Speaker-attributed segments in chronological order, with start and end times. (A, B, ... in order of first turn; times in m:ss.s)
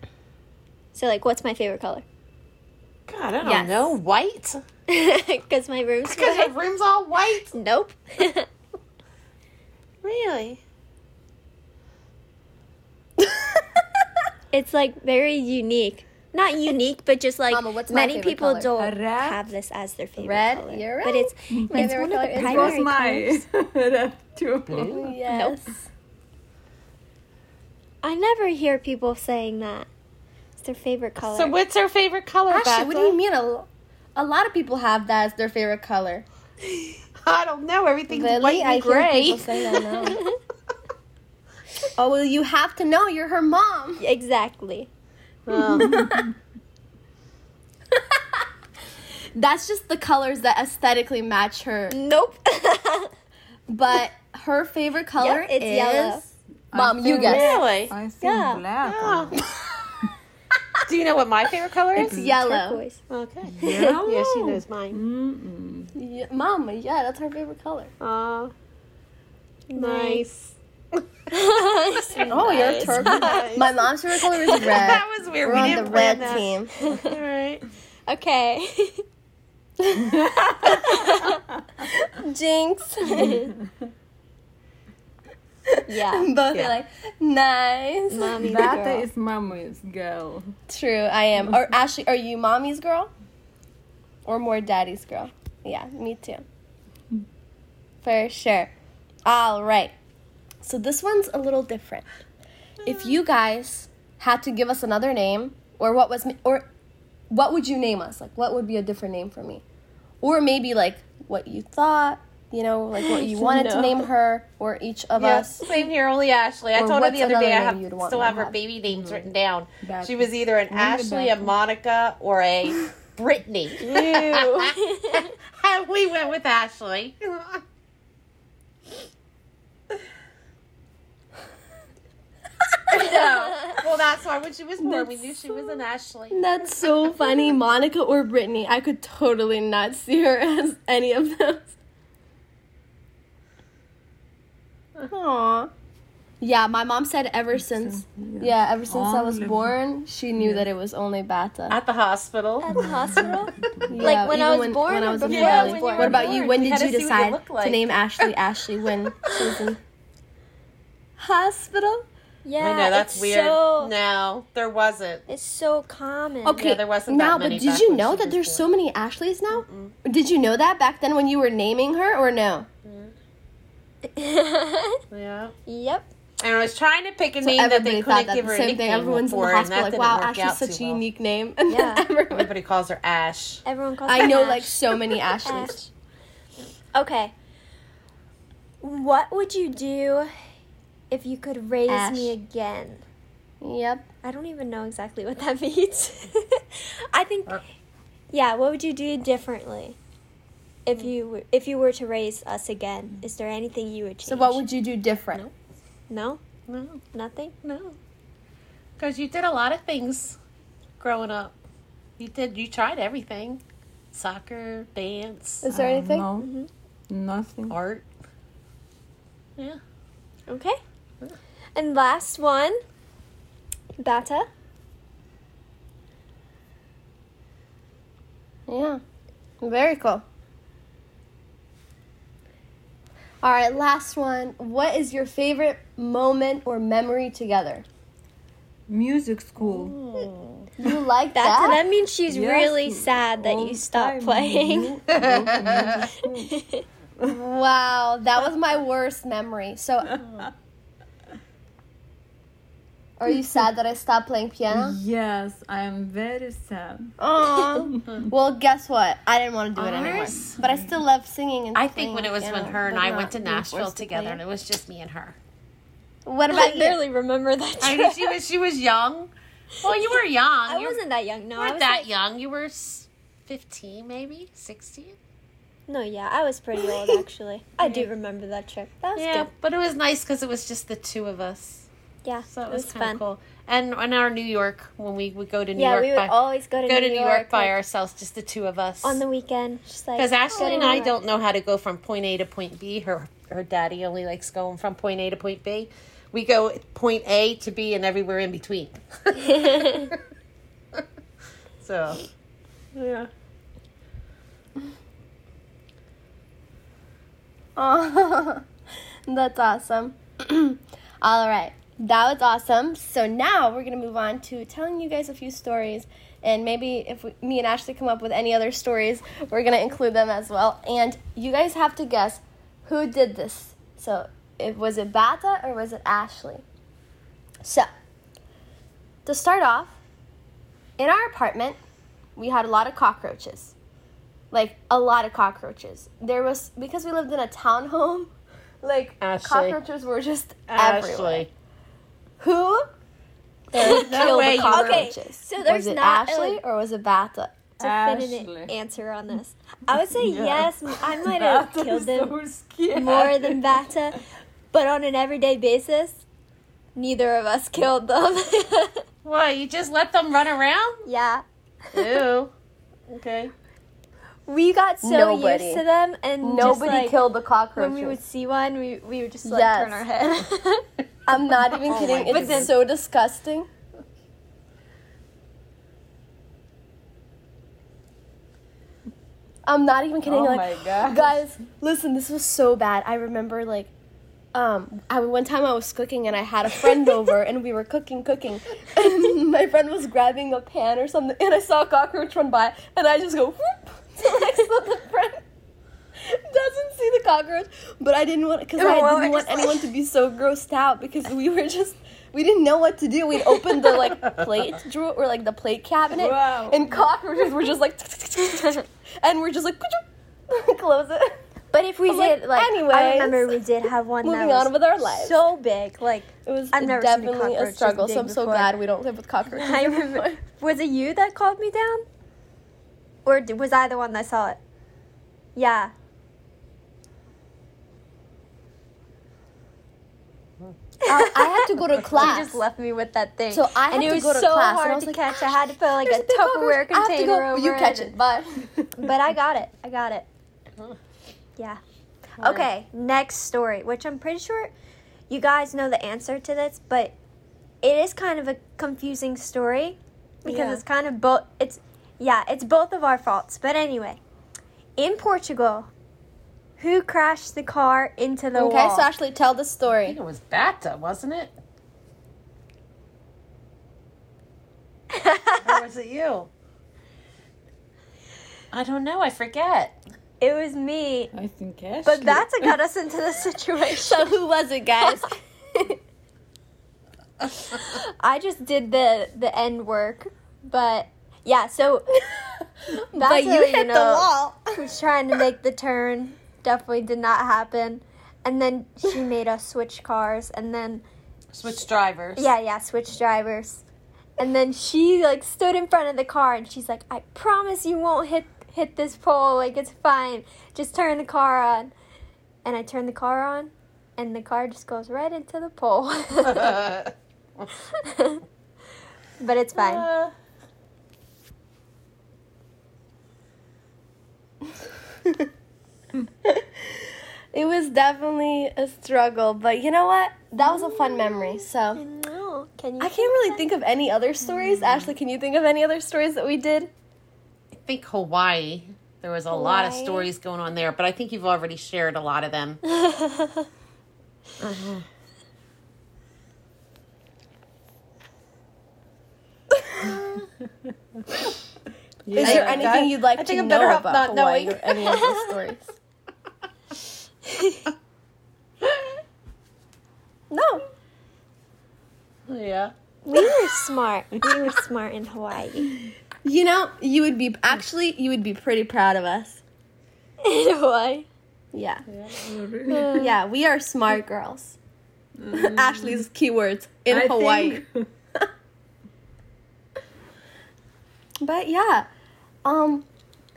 0:00.9-0:02.0 A
0:03.1-0:04.6 B
0:03.4-0:03.9 C
0:04.9-0:06.5 A
0:06.0-0:07.5 B
0:07.5-0:08.5 A
0:10.0-0:10.6 B
0:14.5-0:23.4 A
0:17.5-0:18.7 C
0:18.8-0:19.4 D
0:20.2-0:22.8 C
0:21.5-0:25.1 D
0:24.7-0:25.0 B
0:24.8-0:25.7 C
0:25.2-0:25.6 A
0:28.0-0:29.9 A
0:30.6-0:31.5 A
0:31.2-0:33.2 B
0:32.5-0:36.2 C
0:37.2-0:39.7 B
0:38.1-0:40.2 C
0:42.0-0:44.0 C
0:44.0-0:44.9 A
0:45.4-0:46.1 B
0:45.6-0:46.3 C
0:45.8-0:46.3 D
0:49.3-0:52.0 C
0:51.9-0:53.1 A
0:53.7-0:57.5 C
0:55.2-0:56.2 A
0:56.7-0:59.4 D
0:57.2-0:57.7 A
0:57.2-0:57.9 B
0:58.2-0:58.6 A
0:58.8-0:59.4 B
1:00.9-1:02.2 B
1:02.0-1:02.8 C
1:02.0-1:03.0 A
1:03.1-1:05.0 B
1:03.4-1:05.9 D
1:03.6-1:04.0 A
1:05.9-1:07.9 C
1:08.0-1:08.5 B
1:09.7-1:10.2 A
1:09.8-1:11.0 B
1:11.3-1:13.6 A
1:12.1-1:13.8 B
1:12.3-1:16.7 C
1:14.3-1:14.8 A
1:14.5-1:17.6 B
1:15.5-1:16.2 D
1:16.8-1:17.1 A
1:18.1-1:19.0 A
1:19.8-1:20.9 C
1:20.0-1:21.8 D
1:20.6-1:21.4 A
1:21.9-1:23.4 C
1:23.0-1:23.5 A
1:23.1-1:23.7 D
1:25.7-1:28.4 C
1:25.9-1:26.3 A
1:28.1-1:29.0 A
1:28.4-1:30.5 D
1:30.7-1:33.1 C
1:34.2-1:36.4 C
1:38.0-1:38.7 C
1:39.2-1:39.9 C
1:40.6-1:42.0 C
1:42.8-1:46.7 C
1:47.3-1:49.6 C
1:50.2-1:55.6 C
1:53.0-1:54.1 A
1:55.2-2:07.6 B
1:55.6-1:55.9 A
1:56.7-1:58.6 C
1:58.9-1:59.3 D
1:59.8-2:01.5 D
2:03.8-2:05.3 A
2:12.9-2:16.4 B
2:14.8-2:15.8 C
2:16.3-2:21.7 C
2:25.1-2:25.7 C
2:26.4-2:31.8 C
2:27.6-2:29.8 D
2:30.4-2:30.6 D
2:31.7-2:33.6 B
2:32.6-2:36.4 A
2:32.7-2:34.2 D
2:33.9-2:39.8 C
2:35.3-2:38.3 B
2:41.2-2:42.0 C
2:42.4-2:43.9 A
2:42.6-2:45.2 B
2:45.3-2:46.6 A
2:46.4-2:52.7 C
2:46.5-2:48.7 B
2:49.5-2:49.9 B
2:52.8-2:53.1 B
2:54.0-2:55.0 A
2:55.1-2:55.5 B
2:55.7-2:56.1 A
2:56.4-3:01.0 B
2:57.4-3:02.5 C
3:01.7-3:02.0 A
3:02.3-3:03.6 B
3:03.6-3:05.8 A
3:04.0-3:05.9 C
3:06.9-3:07.3 A
3:08.8-3:10.3 A
3:11.1-3:13.0 A
3:11.9-3:12.3 C
3:13.6-3:14.1 C
3:14.2-3:17.6 A
3:18.3-3:20.0 A
3:20.8-3:24.6 A
3:24.2-3:25.4 C
3:26.1-3:26.4 A
3:26.7-3:27.0 B
3:27.0-3:28.0 A
3:29.0-3:30.4 B
3:31.0-3:31.6 B
3:32.2-3:35.6 B
3:35.6-3:36.2 C
3:35.7-3:36.5 D
3:36.4-3:36.7 A
3:37.1-3:37.8 D
3:37.7-3:38.0 B
3:40.5-3:40.8 A
3:41.8-3:42.8 A
3:44.0-3:44.5 A
3:48.7-3:49.0 C
3:49.6-3:50.2 C
3:53.4-3:57.8 C
3:58.9-4:00.0 D
3:59.6-4:00.6 B
4:00.8-4:01.8 C
4:01.3-4:04.9 A
4:02.3-4:06.5 D
4:05.1-4:06.0 B
4:05.2-4:05.5 C
4:06.2-4:06.8 A
4:07.2-4:10.2 C
4:13.2-4:15.0 C
4:14.7-4:18.2 D
4:17.2-4:24.4 C
4:19.8-4:20.6 B
4:20.6-4:20.9 D
4:21.7-4:25.4 B
4:26.2-4:27.0 C
4:26.5-4:28.4 A
4:27.8-4:29.3 B
4:29.8-4:32.1 A
4:29.8-4:31.0 B
4:31.6-4:35.2 B
4:35.9-4:39.5 A
4:37.8-4:38.1 B
4:39.2-4:41.9 B
4:42.2-4:43.2 A
4:42.5-4:49.2 B
4:45.8-4:47.8 A
4:49.0-4:51.1 A
4:50.2-5:00.2 B
4:59.5-5:00.0 A
5:01.8-5:02.2 B
5:02.9-5:03.3 B
5:07.8-5:08.6 C
5:09.3-5:26.6 C
5:27.6-5:27.9 C
5:29.2-5:30.0 C
5:31.0-5:31.8 C
5:32.4-5:33.7 C
5:34.5-5:41.5 C
5:39.2-5:39.8 B
5:40.7-5:41.5 B
5:42.4-5:42.9 C
5:43.7-5:47.5 C
5:43.7-5:46.6 A
5:43.8-5:45.1 B
5:47.8-5:52.3 A
5:47.8-5:48.7 D
5:50.1-5:53.8 D
5:52.9-5:54.2 A
5:54.7-5:56.2 A
5:57.0-5:59.0 A
5:59.2-6:01.0 B
6:01.0-6:02.2 A
6:01.9-6:02.5 B
6:03.1-6:03.5 B
6:04.5-6:07.2 A
6:05.0-6:05.8 C
6:06.4-6:08.2 C
6:07.7-6:10.8 A
6:09.4-6:10.0 C
6:11.3-6:13.7 C
6:11.8-6:12.7 B
6:12.2-6:12.7 A
6:19.6-6:23.9 C
6:20.2-6:21.4 D
6:24.5-6:35.4 C
6:36.2-6:51.4 C
6:38.8-6:39.8 A
6:44.2-6:44.6 B
6:46.1-6:47.1 D
6:51.7-6:58.7 A
6:52.1-6:53.5 C
6:54.2-6:55.4 C
6:56.4-7:00.4 C
6:59.4-7:02.0 A
7:03.2-7:04.6 A
7:05.6-7:05.9 A
7:11.0-7:18.1 A
7:11.0-7:12.6 C
7:13.5-7:18.6 C
7:19.0-7:20.2 A
7:22.4-7:24.7 A
7:22.4-7:22.7 B
7:25.3-7:27.1 A
7:27.8-7:34.2 A
7:30.4-7:30.8 C
7:35.0-7:35.9 A
7:36.8-7:39.1 A
7:38.5-7:40.2 C
7:40.0-7:41.5 B
7:45.1-7:45.8 A
7:45.6-7:46.5 B
7:48.7-7:50.0 B
7:50.4-7:51.3 A
7:51.3-7:52.9 D
7:52.0-7:54.3 A
7:54.0-7:55.9 C
7:57.7-8:02.2 A
8:03.1-8:04.8 C
8:03.1-8:11.0 A
8:11.5-8:12.5 B
8:12.4-8:13.8 A
8:14.4-8:21.9 A
8:22.6-8:26.8 A
8:26.4-8:27.1 B
8:28.0-8:28.4 A
8:29.4-8:30.0 A
8:29.7-8:30.3 B
8:36.4-8:37.0 C
8:37.5-8:42.0 C
8:40.6-8:43.6 A
8:43.0-8:46.9 C
8:47.7-8:52.8 B
8:49.5-8:50.3 A
8:52.9-8:53.7 A
8:54.6-8:55.0 B
9:02.2-9:03.0 D
9:02.4-9:05.9 C
9:02.4-9:04.9 B
9:05.0-9:05.4 A
9:07.5-9:07.8 A
9:10.5-9:10.8 C
9:12.5-9:13.6 B
9:13.2-9:16.0 A
9:16.4-9:19.6 C
9:20.4-9:21.2 A
9:21.7-9:22.0 C
9:22.1-9:22.4 B
9:22.3-9:23.2 D
9:22.9-9:23.3 A
9:23.1-9:24.8 C
9:25.4-9:26.2 D
9:25.5-9:27.8 C
9:27.1-9:28.1 D
9:31.4-9:32.1 C
9:32.6-9:33.0 C